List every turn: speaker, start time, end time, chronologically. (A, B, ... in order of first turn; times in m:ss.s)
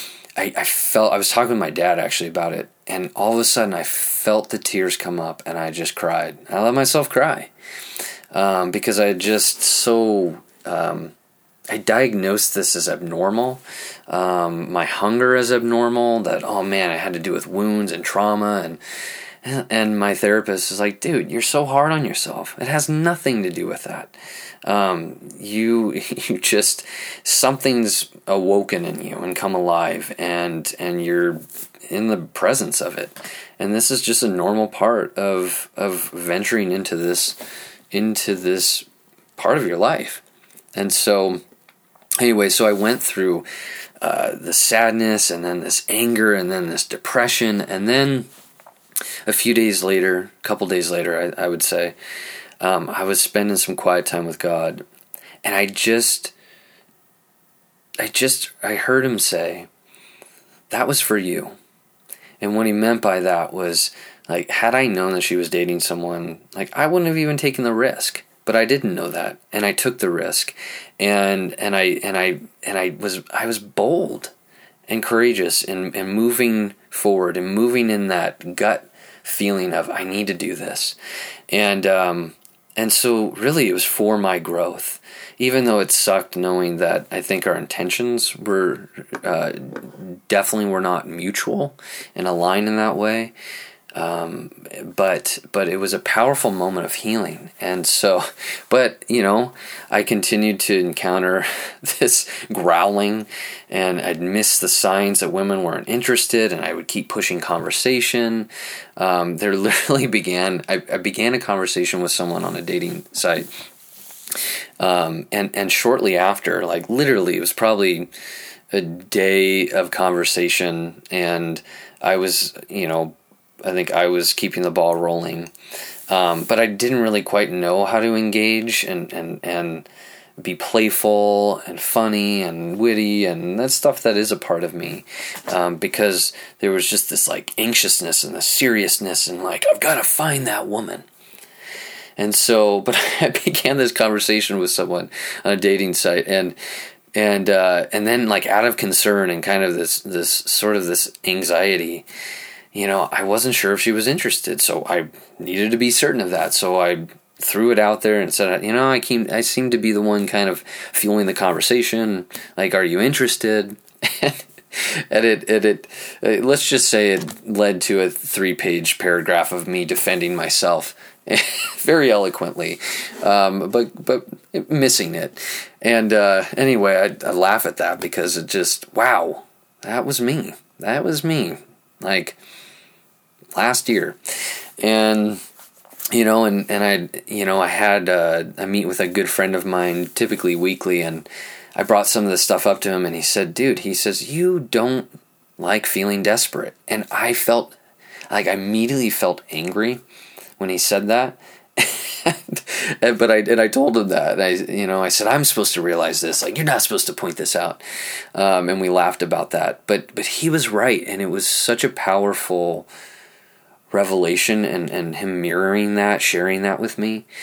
0:00.4-0:07.5 A
0:08.3-0:11.1 A
0:11.7-0:18.8 A
0:19.4-0:37.4 A
0:37.9-0:40.2 A
0:40.7-0:41.4 A
0:42.2-0:43.5 A
0:44.0-0:48.3 A
0:49.3-0:52.0 A
0:52.6-0:54.8 A
0:55.4-0:56.3 A
0:58.0-0:59.7 A
1:00.7-1:01.6 A
1:02.4-1:14.3 A
1:14.9-1:21.0 A
1:21.5-1:33.3 A
1:34.0-1:53.5 A
1:54.8-1:58.1 A
1:58.7-2:05.5 A
2:06.1-2:09.9 A
2:10.4-2:21.1 A
2:22.2-2:26.6 A
2:27.1-2:32.1 A
2:32.7-3:02.4 A
3:03.6-3:04.2 A
3:04.8-3:05.4 A
3:06.1-3:17.8 A
3:18.3-3:20.0 A
3:20.6-3:27.8 A
3:28.3-3:32.9 A
3:33.9-3:37.3 A